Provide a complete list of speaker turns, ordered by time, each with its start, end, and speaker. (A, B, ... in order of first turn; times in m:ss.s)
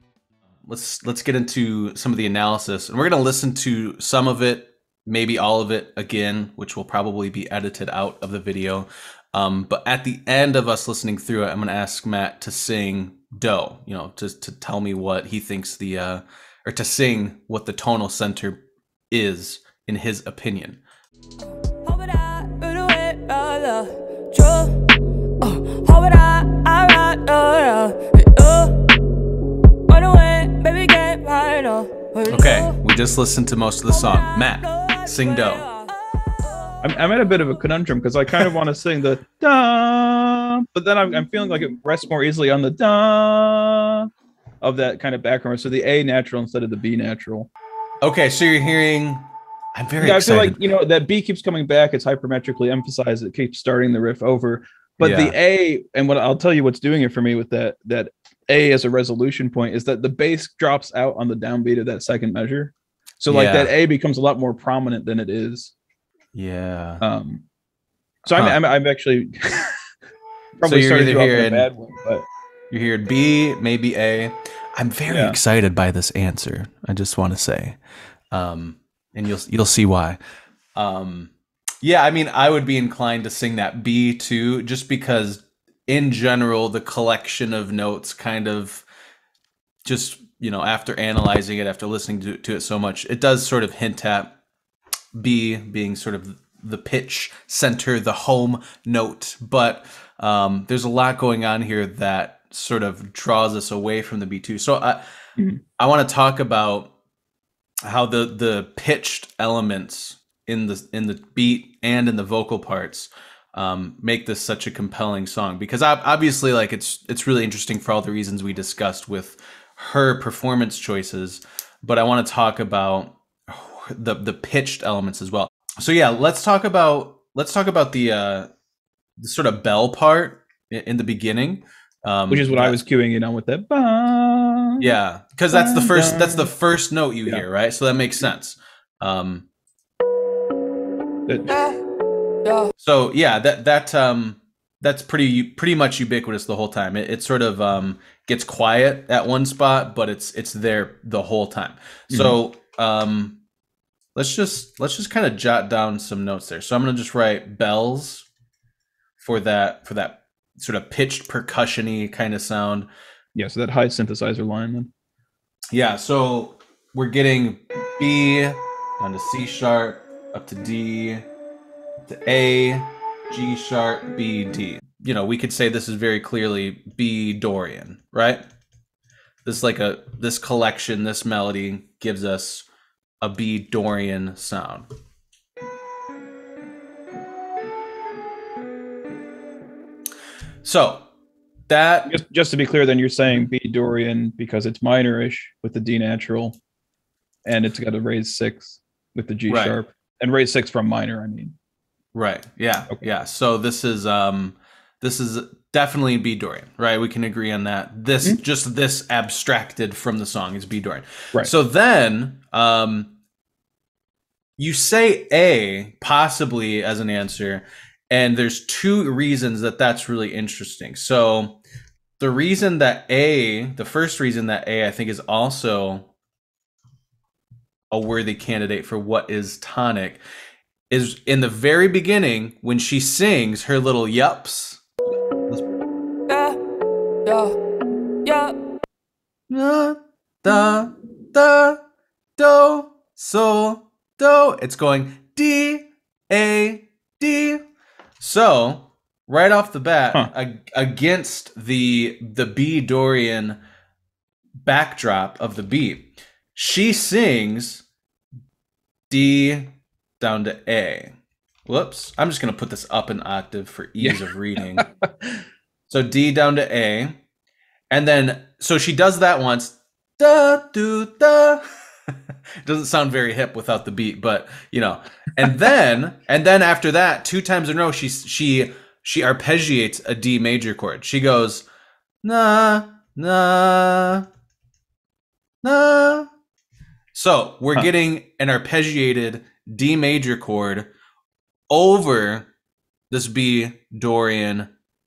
0:00.6-0:20.8 A
0:21.7-0:24.9 B
0:25.4-0:28.9 B
0:29.9-0:32.8 B
0:32.3-0:35.7 A
0:33.9-0:36.8 B
0:36.8-0:44.1 C
0:44.6-0:47.5 C
0:48.0-0:50.6 A
0:50.0-1:05.7 C
0:55.0-0:55.4 A
1:03.3-1:03.7 A
1:06.3-1:07.0 A
1:07.0-1:07.4 C
1:08.3-1:08.6 A
1:08.3-1:09.8 C
1:10.6-1:12.3 C
1:10.6-1:11.7 A
1:12.7-1:17.8 A
1:15.1-1:15.4 C
1:18.3-1:20.2 A
1:20.8-1:28.8 A
1:29.8-1:34.4 A
1:35.1-1:45.0 A
1:45.8-1:46.9 A
1:47.8-2:08.5 A
2:09.2-2:12.8 A
2:12.3-2:14.9 C
2:14.8-2:19.5 A
2:15.5-2:16.5 C
2:21.3-2:21.6 C
2:21.5-2:21.8 B
2:22.4-2:22.7 B
2:22.8-2:33.4 A
2:32.1-2:32.4 C
2:34.2-2:38.3 A
2:39.2-2:42.9 A
2:43.4-2:44.9 C
2:45.7-2:51.3 A
2:52.0-2:58.4 A
2:59.4-3:02.7 A
3:03.2-3:04.9 A
3:10.6-3:11.1 A
3:11.7-3:12.1 A
3:12.1-3:16.6 C
3:17.4-3:21.6 C
3:19.5-3:19.8 A
3:22.1-3:33.1 A
3:34.6-3:41.6 A
3:42.2-3:46.1 A
3:47.9-3:50.2 A
3:50.9-3:54.8 A
3:56.3-3:56.6 B
3:57.3-3:57.6 B
3:58.2-3:58.6 B
3:59.5-4:01.8 A
4:02.4-4:07.6 A
4:08.2-4:13.6 A
4:14.6-4:17.8 A
4:19.1-4:21.2 A
4:21.7-4:24.9 A
4:24.0-4:25.4 C
4:25.9-4:27.2 A
4:27.9-4:41.6 A
4:42.2-4:44.3 A
4:45.6-4:46.3 A
4:47.1-4:50.9 A
4:51.7-4:52.5 A
4:53.1-4:54.7 A